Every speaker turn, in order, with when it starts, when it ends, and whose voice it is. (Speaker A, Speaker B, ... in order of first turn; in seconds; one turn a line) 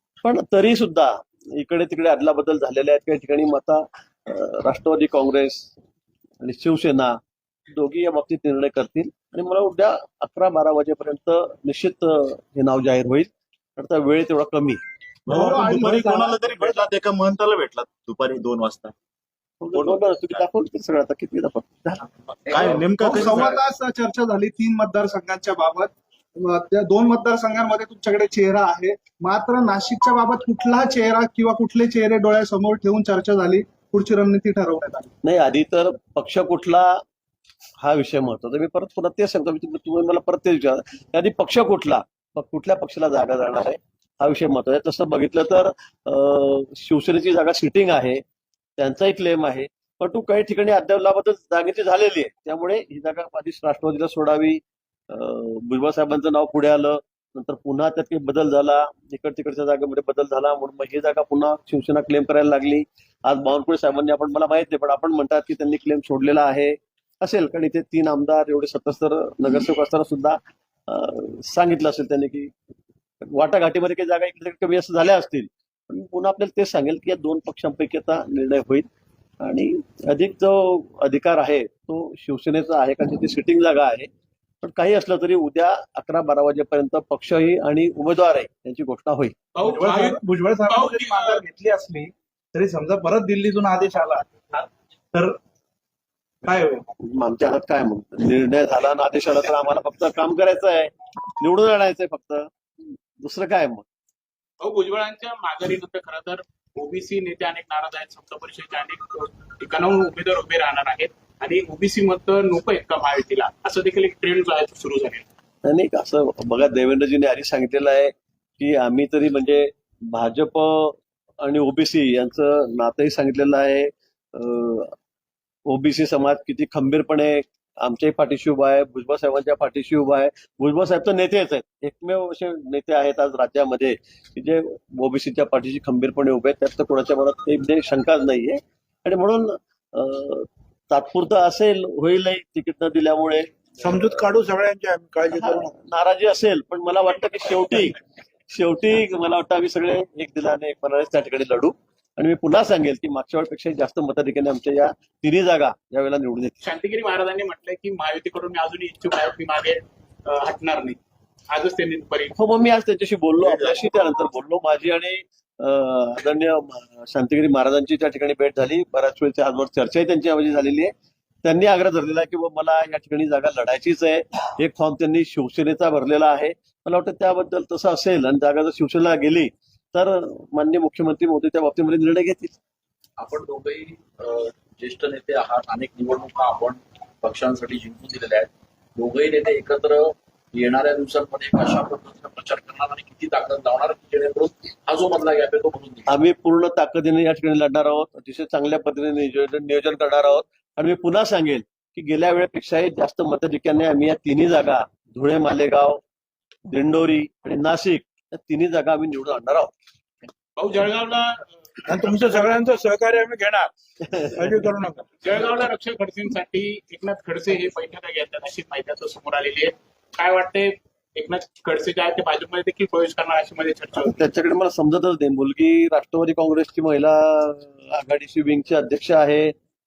Speaker A: 0.2-5.7
Speaker A: 6.4-14.8
Speaker B: 15.3-18.9
Speaker C: 15.3-16.8
Speaker A: 19.6-22.0
Speaker B: 19.8-20.0
Speaker B: 22.5-23.6
Speaker C: 22.5-35.1
Speaker A: 35.2-37.0
Speaker A: 37.8-48.2
Speaker A: 48.8-72.5
Speaker A: 73.2-78.9
Speaker A: 79.4-84.1
Speaker A: 84.6-89.3
Speaker D: 89.5-91.4
Speaker C: 89.7-91.7
Speaker E: 89.9-90.4
Speaker E: 91.5-92.1
Speaker E: 92.6-94.2
Speaker E: 96.5-96.8
Speaker A: 97.0-102.5
Speaker A: 103.2-103.8
Speaker D: 104.6-115.3
Speaker A: 115.7-124.9
Speaker A: 125.7-144.2
Speaker E: 144.0-145.7
Speaker A: 145.3-148.0
Speaker A: 148.5-156.6
Speaker D: 156.6-161.0
Speaker D: 161.5-162.3
Speaker A: 162.4-170.9
Speaker A: 171.4-182.6
Speaker F: 183.2-196.1
Speaker A: 196.1-206.0
Speaker A: 206.7-209.7
Speaker D: 210.6-212.6
Speaker E: 212.0-213.7
Speaker A: 214.0-214.7
Speaker E: 214.4-215.0
Speaker D: 215.2-224.2
Speaker A: 224.0-229.5